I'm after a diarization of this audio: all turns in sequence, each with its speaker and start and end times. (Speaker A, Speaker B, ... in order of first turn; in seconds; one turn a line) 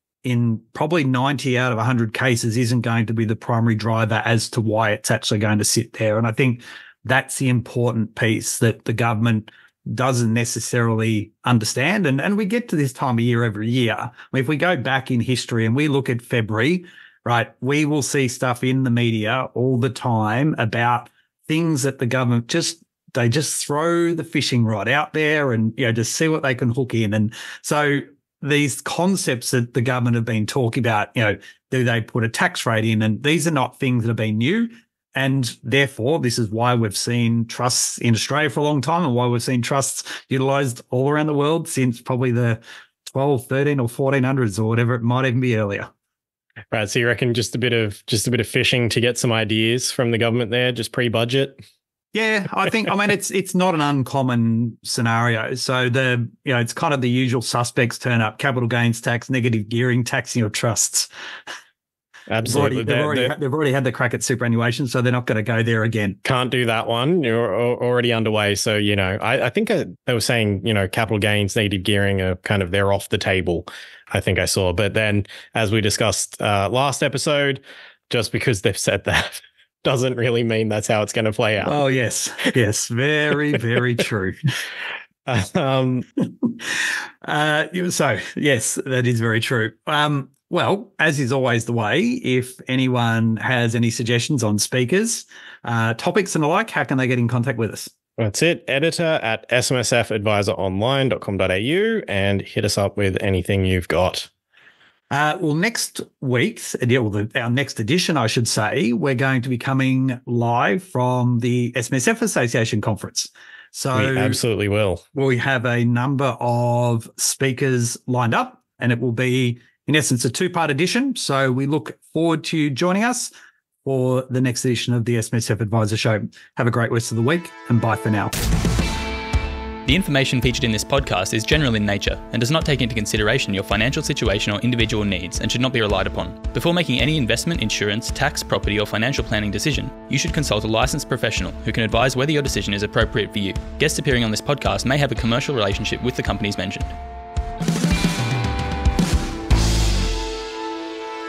Speaker A: 0.2-45.9
Speaker B: 46.7-51.6
Speaker A: 52.1-61.1
Speaker B: 62.3-63.3
Speaker A: 62.4-66.2
Speaker B: 66.2-81.8
Speaker A: 81.6-84.4
Speaker B: 85.3-86.1
Speaker A: 87.2-97.9
Speaker B: 98.2-104.3
Speaker A: 105.1-114.4
Speaker B: 113.9-115.0
Speaker A: 115.2-123.3
Speaker A: 123.8-128.3
Speaker C: 129.8-146.9